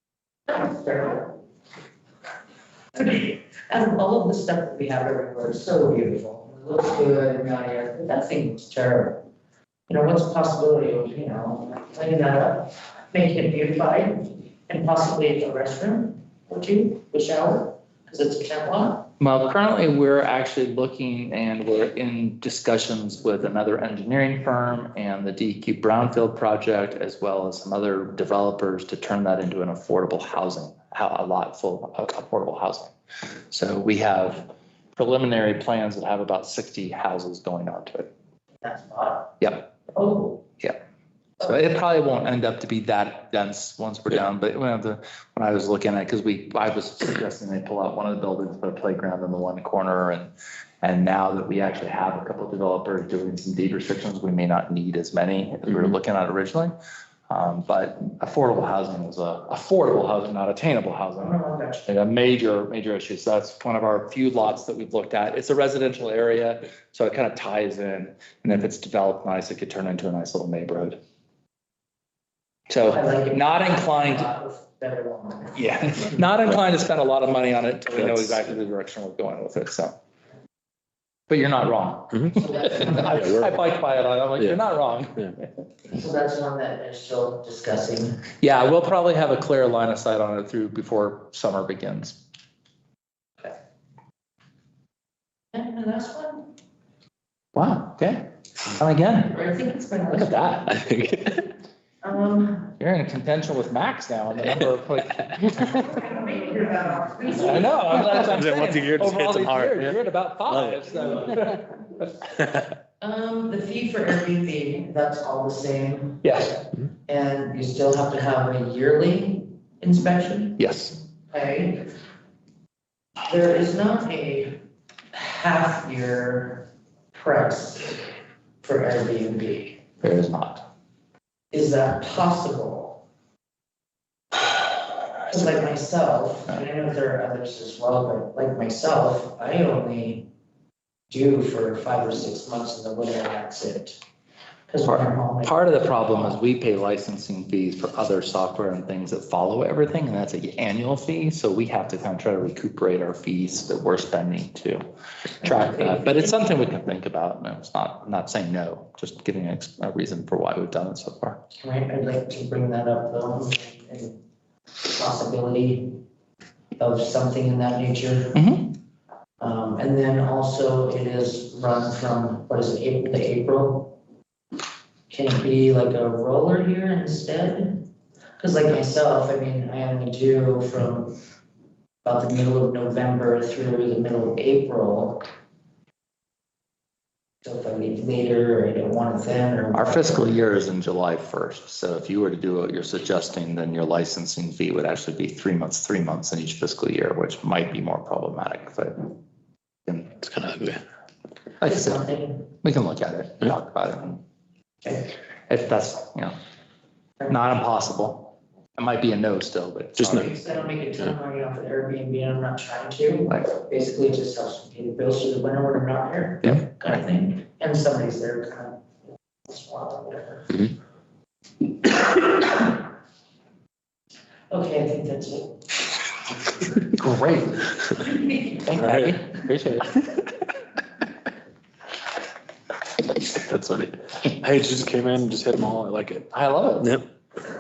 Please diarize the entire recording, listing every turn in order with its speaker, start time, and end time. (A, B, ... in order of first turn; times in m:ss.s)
0:00.5-0:01.4 A
0:03.0-0:09.2 A
0:09.9-0:19.1 A
0:19.2-0:32.9 B
0:33.5-0:38.1 B
0:38.6-0:39.4 A
0:39.4-0:39.7 B
0:39.9-0:40.4 A
0:41.4-0:50.3 B
0:50.8-0:56.7 B
0:57.3-1:11.0 B
1:01.2-1:01.9 A
1:12.7-1:14.3 B
1:12.9-1:15.6 A
1:15.6-1:20.0 B
1:21.3-1:25.4 B
1:22.3-1:23.2 A
1:23.2-1:23.6 C
1:25.9-1:28.2 A
1:28.4-1:32.2 B
1:35.5-1:36.5 A
1:37.6-1:39.4 B
1:39.3-1:40.7 A
1:40.1-1:40.7 B
1:40.6-1:41.5 C
1:42.0-1:42.7 A
1:42.8-1:45.9 B
1:45.6-1:48.2 A
1:47.3-1:51.7 B
1:47.9-1:50.0 C
1:50.5-1:51.4 C
1:52.4-1:52.6 C
1:53.0-2:00.6 A
1:56.2-1:56.6 B
2:00.6-2:01.0 B
2:01.3-2:01.9 A
2:03.3-2:04.6 A
2:05.1-2:08.0 A
2:08.6-2:09.8 A
2:10.0-2:10.6 B
2:11.5-2:13.0 A
2:15.3-2:20.3 A
2:21.1-2:24.0 A
2:24.7-2:26.4 A
2:24.8-2:34.8 B
2:35.4-2:41.4 B
2:35.4-2:36.3 A
2:41.6-2:44.2 A
2:44.9-2:46.0 A
2:46.8-2:48.4 A
2:48.3-2:48.8 B
2:49.4-2:54.0 A
2:55.1-2:57.9 A
2:58.4-3:01.2 A
3:02.0-3:05.2 A
3:07.4-3:10.3 A
3:09.7-3:19.1 B
3:20.2-3:20.8 C
3:21.6-3:24.2 B
3:21.6-3:22.5 A
3:25.5-3:26.3 B
3:27.3-3:30.2 B
3:30.0-3:30.2 C
3:30.0-3:38.8 A
3:39.5-3:40.7 A
3:44.5-3:45.6 A
3:47.0-3:47.6 B
3:47.7-3:48.7 A
3:48.6-3:50.0 B
3:48.8-3:49.2 C
3:53.3-3:56.3 C
3:56.3-3:57.0 B
3:56.8-3:57.1 C